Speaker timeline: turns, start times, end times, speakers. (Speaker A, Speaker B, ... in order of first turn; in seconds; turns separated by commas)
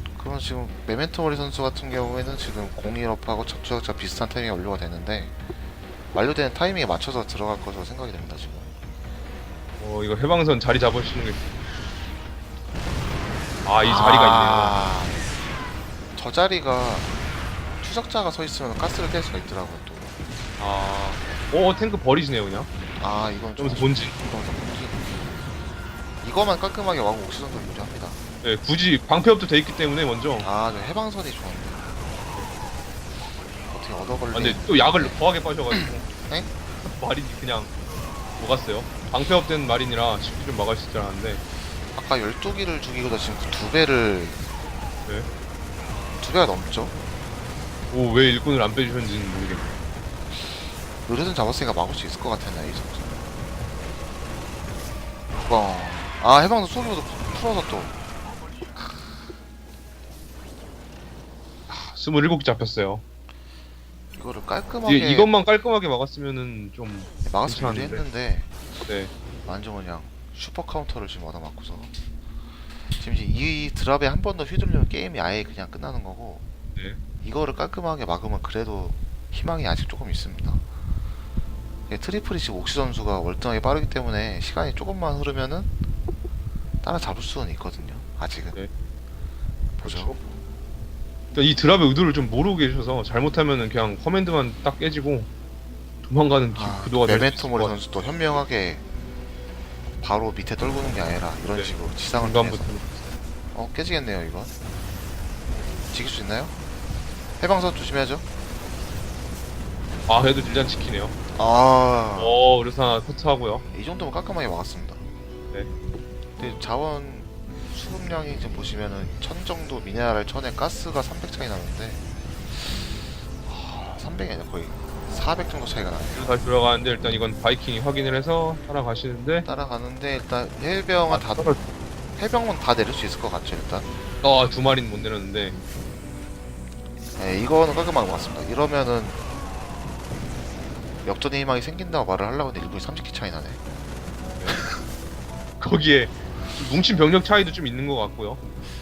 Speaker A: 0.1-5.4, Speaker A: 6.1-8.7, Speaker B: 9.8-11.5, Speaker B: 13.6-14.9, Speaker A: 13.8-15.3, Speaker A: 16.1-17.2, Speaker A: 17.8-20.2, Speaker B: 20.6-22.7, Speaker A: 23.0-25.2, Speaker B: 23.6-24.2, Speaker A: 26.2-28.2, Speaker B: 28.4-30.5, Speaker A: 30.4-32.0, Speaker A: 33.7-35.2, Speaker B: 34.3-36.1, Speaker A: 35.7-36.5, Speaker B: 36.8-37.7, Speaker B: 38.4-41.4, Speaker A: 41.9-44.5, Speaker A: 46.2-47.0, Speaker B: 47.9-49.8, Speaker A: 51.0-53.3, Speaker A: 55.4-58.0, Speaker A: 58.8-59.1, Speaker B: 61.7-63.0, Speaker A: 64.2-65.3, Speaker B: 64.8-68.0, Speaker A: 67.2-68.5, Speaker B: 68.9-69.1, Speaker A: 69.4-71.9, Speaker A: 72.9-76.5, Speaker B: 76.8-77.0, Speaker A: 77.2-80.6, Speaker A: 81.9-85.7, Speaker A: 86.8-88.6, Speaker A: 89.8-90.2, Speaker B: 89.8-90.2, Speaker B: 91.3-95.3, Speaker B: 96.0-97.8, Speaker A: 96.5-98.8, Speaker A: 100.0-102.7, Speaker B: 101.5-103.1, Speaker A: 103.5-104.6, Speaker A: 105.9-106.5, Speaker A: 107.4-108.2, Speaker B: 110.1-111.2, Speaker A: 111.3-112.4, Speaker B: 112.2-113.7, Speaker A: 113.7-115.1, Speaker A: 116.4-122.0, Speaker A: 123.4-126.3, Speaker B: 126.1-129.5, Speaker A: 129.4-131.6, Speaker B: 131.1-131.6, Speaker A: 132.2-133.9, Speaker B: 134.2-135.6, Speaker A: 137.2-139.2, Speaker A: 141.0-143.6, Speaker B: 144.4-144.6, Speaker B: 145.6-148.4